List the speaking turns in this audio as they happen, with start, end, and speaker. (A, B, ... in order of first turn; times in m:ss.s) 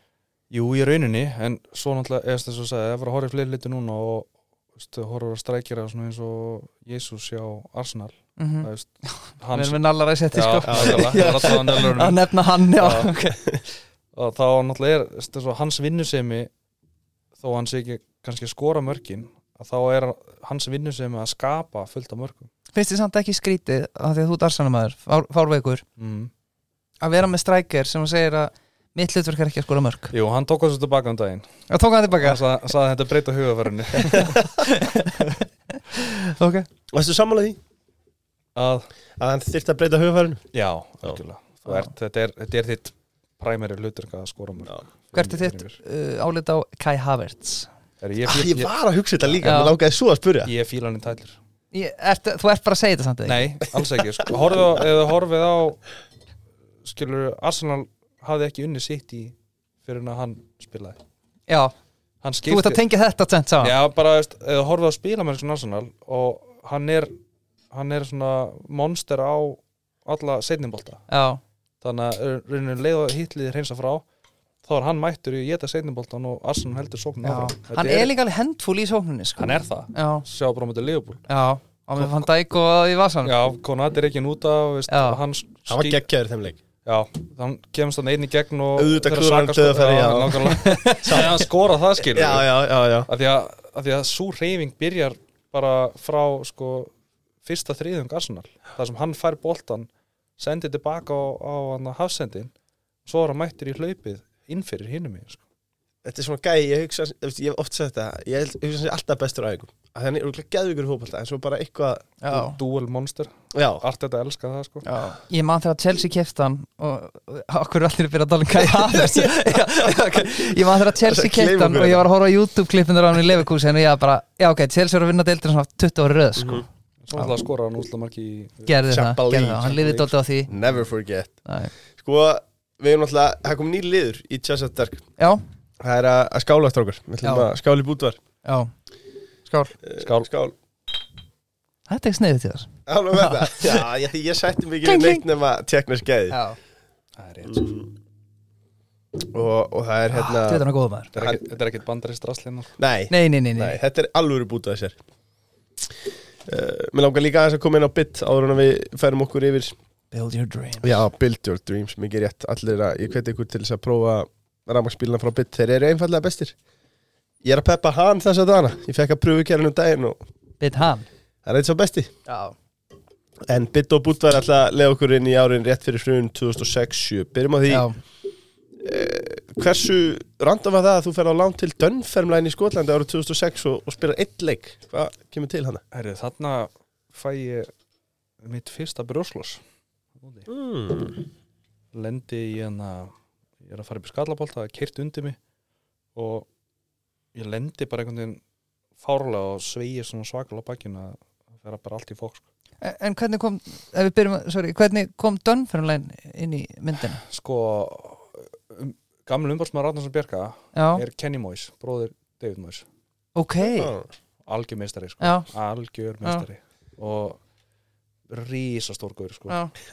0:00.5-0:09.8 A
0:08.4-0:13.6 B
0:10.3-0:13.1 A
0:10.6-0:11.7 C
0:14.1-0:16.5 A
0:17.4-0:22.5 A
0:22.7-0:25.8 B
0:26.0-0:26.3 A
0:27.0-0:30.1 B
0:30.1-0:31.5 A
0:31.7-0:32.4 B
0:32.1-0:34.5 A
0:34.1-0:34.4 C
0:34.6-0:35.3 B
0:35.1-0:35.4 A
0:35.9-0:36.7 B
0:36.9-0:37.6 C
0:38.5-0:38.9 A
0:39.2-0:40.4 C
0:40.5-0:45.8 A
0:45.1-0:47.7 B
0:48.0-0:49.6 A
0:48.2-0:50.5 C
0:49.4-0:49.8 B
0:50.4-0:51.4 A
0:51.7-0:53.5 B
0:53.2-0:55.8 A
0:56.8-1:01.0 A
1:01.5-1:01.7 B
1:02.2-1:02.8 A
1:02.4-1:03.7 B
1:03.6-1:07.1 A
1:07.7-1:11.0 A
1:11.1-1:11.4 B
1:11.8-1:14.0 A
1:14.6-1:18.1 A
1:17.2-1:20.2 B
1:19.4-1:21.2 A
1:21.3-1:23.3 B
1:22.0-1:22.3 A
1:23.2-1:26.0 A
1:24.9-1:25.2 B
1:25.7-1:26.6 C
1:26.8-1:32.5 A
1:28.8-1:31.4 C
1:30.9-1:31.2 B
1:32.0-1:33.1 C
1:33.0-1:36.9 A
1:37.4-1:42.5 A
1:43.0-1:45.4 A
1:46.0-1:52.1 C
1:52.2-1:52.6 B
1:52.3-1:54.9 A
1:53.5-1:53.8 C
1:54.8-2:06.6 B
1:58.7-2:00.2 C
2:00.8-2:02.1 C
2:06.4-2:06.6 C
2:07.0-2:08.7 A
2:08.7-2:10.5 B
2:08.9-2:09.9 C
2:09.7-2:10.1 A
2:10.5-2:11.4 C
2:11.4-2:11.7 B
2:12.0-2:15.0 C
2:15.8-2:18.2 C
2:17.2-2:17.5 B
2:18.4-2:18.7 B
2:19.5-2:19.7 B
2:19.8-2:20.6 C
2:20.0-2:20.3 A
2:21.9-2:23.8 B
2:22.9-2:26.4 C
2:24.8-2:25.2 B
2:26.3-2:26.6 B
2:27.2-2:27.7 A
2:27.5-2:27.9 C
2:29.2-2:31.4 C
2:30.1-2:31.1 B
2:31.1-2:32.8 A
2:32.8-2:35.0 C
2:33.1-2:33.8 B
2:36.4-2:39.8 C
2:40.1-2:40.9 B
2:40.8-2:46.5 C
2:47.4-2:50.2 C
2:50.6-2:51.1 B
2:51.4-2:52.1 C
2:52.3-2:52.5 B
2:53.5-2:57.9 C
2:57.7-2:58.0 B
2:58.8-3:05.8 C
3:05.9-3:07.7 A
3:08.4-3:09.6 A
3:10.2-3:10.5 A
3:10.5-3:11.2 C
3:11.9-3:15.4 A
3:16.1-3:16.5 A
3:17.3-3:18.4 A
3:19.0-3:22.4 A
3:22.8-3:27.2 B
3:27.2-3:32.8 A
3:30.7-3:31.0 B
3:33.3-3:33.9 B
3:33.6-3:34.1 C
3:34.4-3:37.4 A
3:35.2-3:35.5 B
3:38.3-3:39.6 A